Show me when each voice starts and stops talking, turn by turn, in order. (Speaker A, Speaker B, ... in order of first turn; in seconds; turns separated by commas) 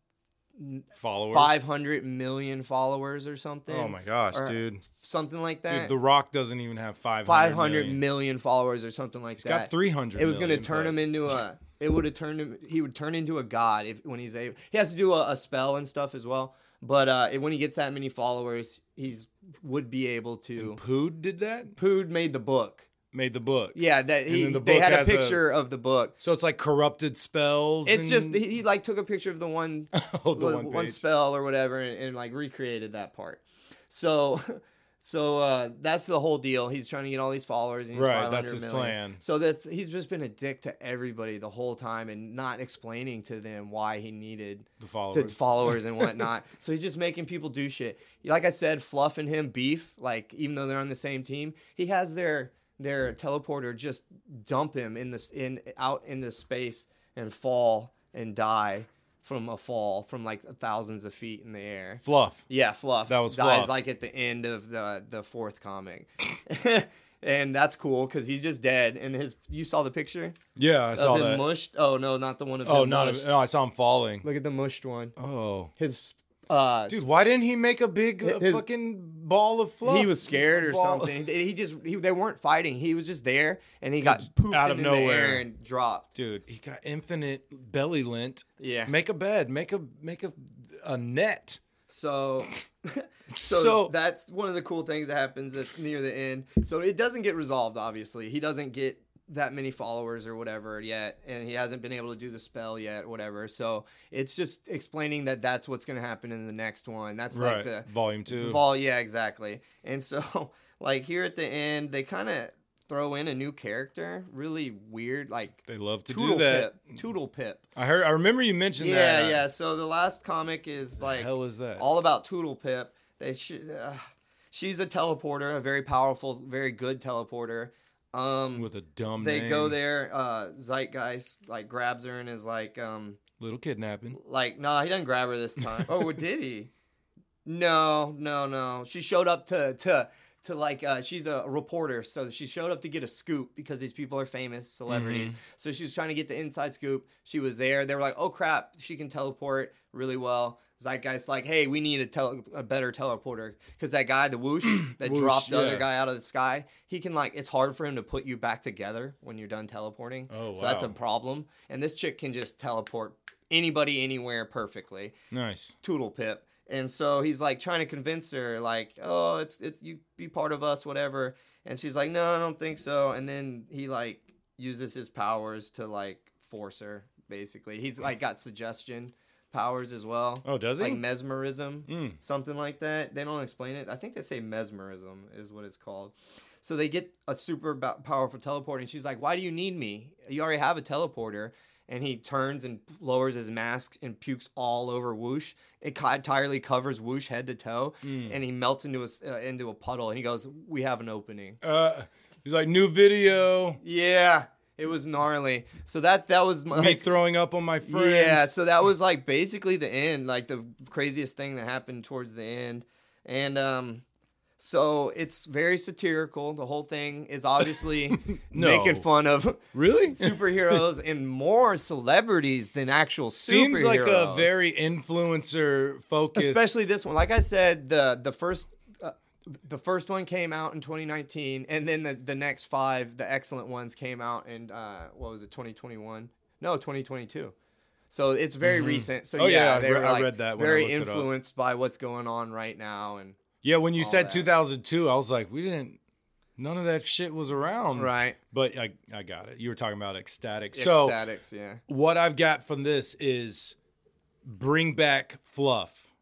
Speaker A: 0.6-5.9, Speaker B: 1.0-1.6, Speaker B: 3.7-4.8, Speaker B: 5.7-8.0, Speaker A: 7.2-20.8, Speaker B: 9.4-11.0, Speaker B: 20.6-21.7, Speaker A: 21.8-22.9, Speaker B: 23.1-25.4, Speaker A: 23.7-26.1, Speaker B: 26.2-28.4, Speaker A: 27.8-70.3, Speaker B: 29.9-31.0, Speaker B: 37.9-39.2, Speaker B: 44.8-46.2, Speaker B: 62.0-62.4, Speaker B: 63.1-63.8, Speaker B: 70.5-71.5, Speaker A: 70.9-73.3, Speaker B: 72.6-74.2, Speaker A: 74.2-75.1, Speaker B: 75.2-75.7, Speaker A: 75.8-77.0, Speaker B: 76.9-81.1, Speaker A: 78.2-78.6, Speaker A: 79.8-86.1, Speaker B: 84.0-85.5, Speaker B: 86.1-91.6, Speaker A: 88.6-88.9, Speaker A: 91.9-117.6, Speaker B: 93.3-93.9, Speaker B: 107.3-108.6, Speaker B: 115.7-116.9, Speaker B: 117.8-119.4, Speaker A: 118.8-124.0, Speaker B: 121.0-121.9, Speaker A: 124.5-133.2, Speaker B: 128.5-129.8, Speaker B: 133.4-134.2, Speaker A: 134.1-136.7, Speaker A: 137.4-165.1, Speaker B: 144.9-145.4, Speaker B: 154.7-155.9, Speaker B: 160.3-160.9, Speaker B: 165.3-165.7, Speaker A: 165.8-201.6, Speaker B: 180.4-181.0, Speaker B: 181.9-182.2, Speaker B: 198.0-198.3, Speaker B: 201.6-203.8, Speaker A: 203.8-207.1, Speaker B: 206.7-208.5, Speaker A: 207.8-214.0, Speaker A: 214.6-224.5, Speaker B: 218.2-219.0, Speaker B: 219.7-220.8, Speaker B: 223.3-226.8, Speaker A: 226.3-237.5, Speaker A: 238.1-243.4, Speaker B: 238.6-241.3, Speaker B: 243.6-246.0, Speaker A: 244.0-244.5, Speaker B: 246.6-251.2, Speaker A: 247.9-248.4, Speaker A: 250.7-251.8, Speaker B: 251.9-253.8, Speaker B: 254.4-256.1